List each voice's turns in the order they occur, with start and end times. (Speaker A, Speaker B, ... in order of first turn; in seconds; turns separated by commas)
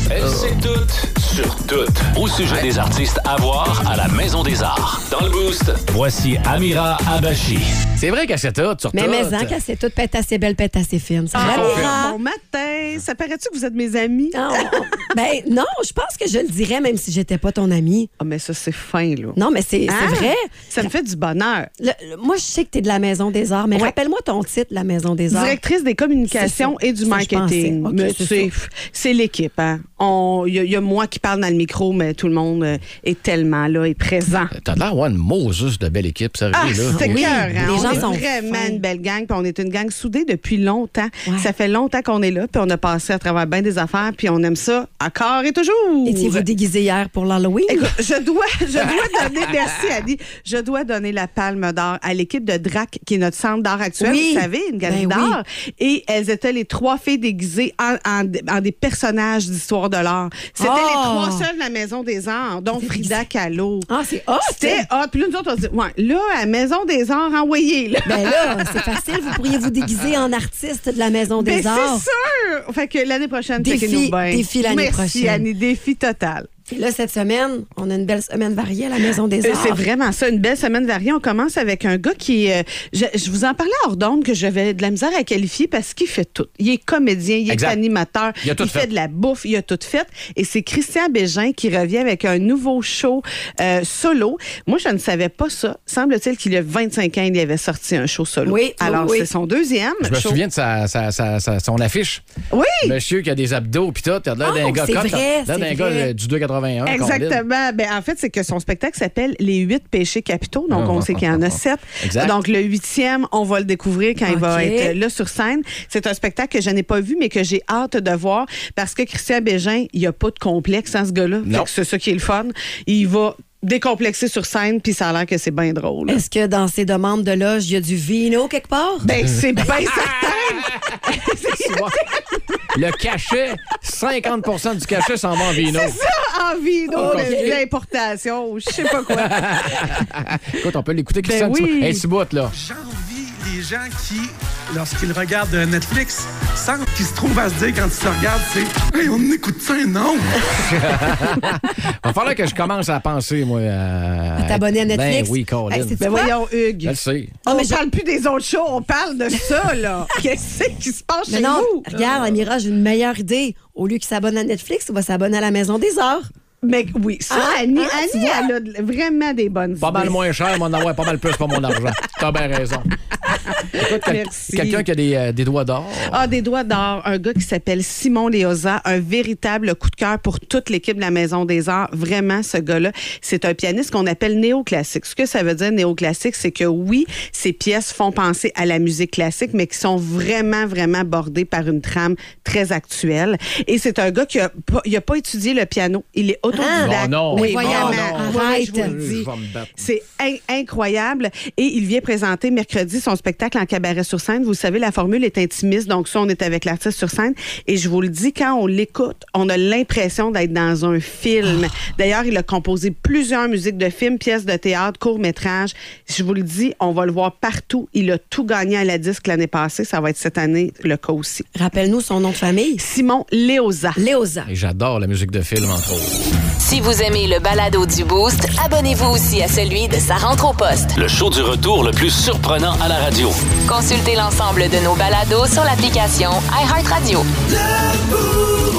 Speaker A: 0.1-7.8, Speaker B: 8.0-9.6, Speaker C: 8.9-12.2, Speaker D: 11.3-15.1, Speaker B: 11.4-12.0, Speaker C: 14.3-18.1, Speaker D: 18.2-21.7, Speaker C: 19.4-20.9, Speaker C: 21.8-25.6, Speaker D: 25.3-34.5, Speaker C: 26.3-28.5, Speaker B: 34.5-38.1, Speaker D: 36.5-46.5, Speaker C: 36.9-38.8, Speaker C: 46.0-47.9, Speaker D: 47.7-63.9, Speaker C: 54.0-55.4, Speaker C: 60.6-61.5, Speaker C: 62.8-63.2, Speaker C: 63.9-64.8, Speaker D: 64.4-68.5, Speaker C: 68.0-72.1, Speaker D: 71.4-76.5, Speaker C: 73.6-75.5, Speaker C: 76.7-79.8, Speaker D: 79.4-100.4, Speaker B: 87.5-87.8, Speaker B: 88.4-88.9, Speaker C: 98.5-99.3, Speaker B: 100.0-102.2, Speaker D: 102.5-103.0, Speaker B: 102.8-107.4, Speaker C: 104.4-106.1, Speaker D: 106.9-126.2, Speaker B: 110.7-112.4, Speaker C: 114.2-115.0, Speaker B: 121.4-121.7, Speaker C: 126.1-129.1, Speaker D: 129.0-132.7, Speaker B: 129.6-132.0, Speaker B: 132.7-136.0, Speaker D: 135.5-140.1, Speaker C: 136.9-137.6, Speaker B: 136.9-137.6, Speaker B: 138.8-142.5, Speaker D: 141.2-142.0, Speaker E: 142.5-151.1, Speaker B: 150.4-156.0, Speaker C: 154.4-156.3, Speaker D: 156.0-161.9, Speaker B: 156.8-157.4, Speaker C: 157.5-157.8, Speaker C: 161.3-166.3, Speaker B: 162.0-162.3, Speaker D: 166.6-170.2, Speaker C: 167.3-168.5, Speaker B: 169.8-172.9, Speaker D: 173.6-174.8, Speaker B: 173.6-176.3, Speaker D: 176.1-221.5, Speaker C: 196.5-199.0, Speaker B: 196.8-199.9, Speaker C: 221.6-222.8, Speaker D: 222.8-224.0, Speaker C: 224.0-224.5, Speaker B: 224.5-226.2, Speaker F: 226.6-230.9, Speaker A: 230.9-233.4, Speaker F: 233.7-237.3